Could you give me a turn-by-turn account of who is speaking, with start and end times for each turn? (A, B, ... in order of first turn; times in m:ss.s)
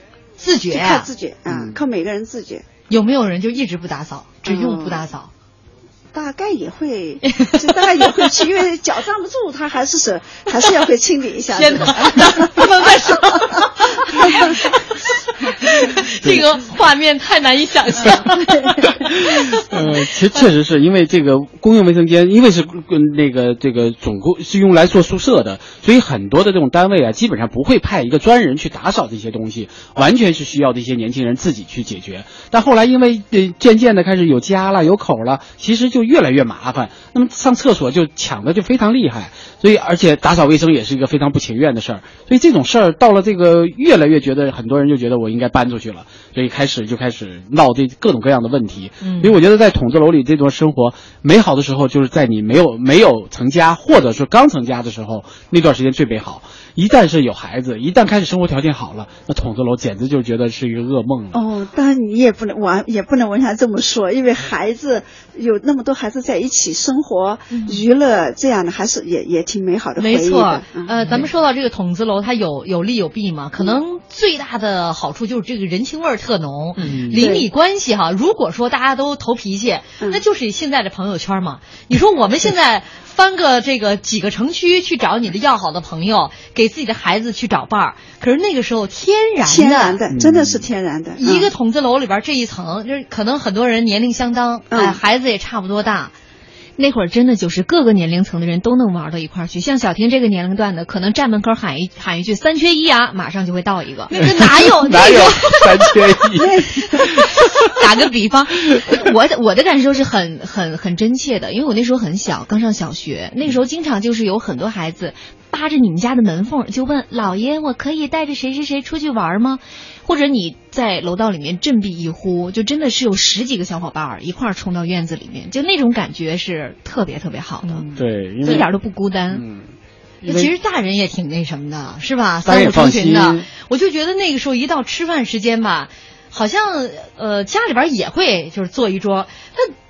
0:00.4-0:01.1 A
0:00.7-0:02.7 B
0:01.5-0:01.8 C
0:02.9-0:05.3 A
0:04.4-0:05.0 B
0:06.1-0:12.7 B
0:11.5-0:14.8 A
0:14.2-0:14.5 B
0:15.4-0:20.0 A
0:19.0-1:01.4 C
0:49.0-0:49.4 A
1:01.3-1:10.9 B
1:07.5-1:07.8 A
1:10.0-1:30.0 A
1:11.0-1:11.3 C
1:16.8-1:17.3 C
1:17.1-1:17.5 B
1:29.4-1:31.5 B
1:30.1-1:30.7 C
1:31.2-1:36.1 A
1:34.7-1:35.0 B
1:36.8-1:45.8 D
1:44.1-1:45.5 A
1:44.2-1:47.5 C
1:46.4-1:47.1 B
1:47.8-2:07.9 D
2:07.6-2:08.7 A
2:08.0-2:08.7 C
2:08.4-2:09.4 D
2:09.3-2:10.5 C
2:10.3-2:19.7 A
2:12.4-2:13.5 C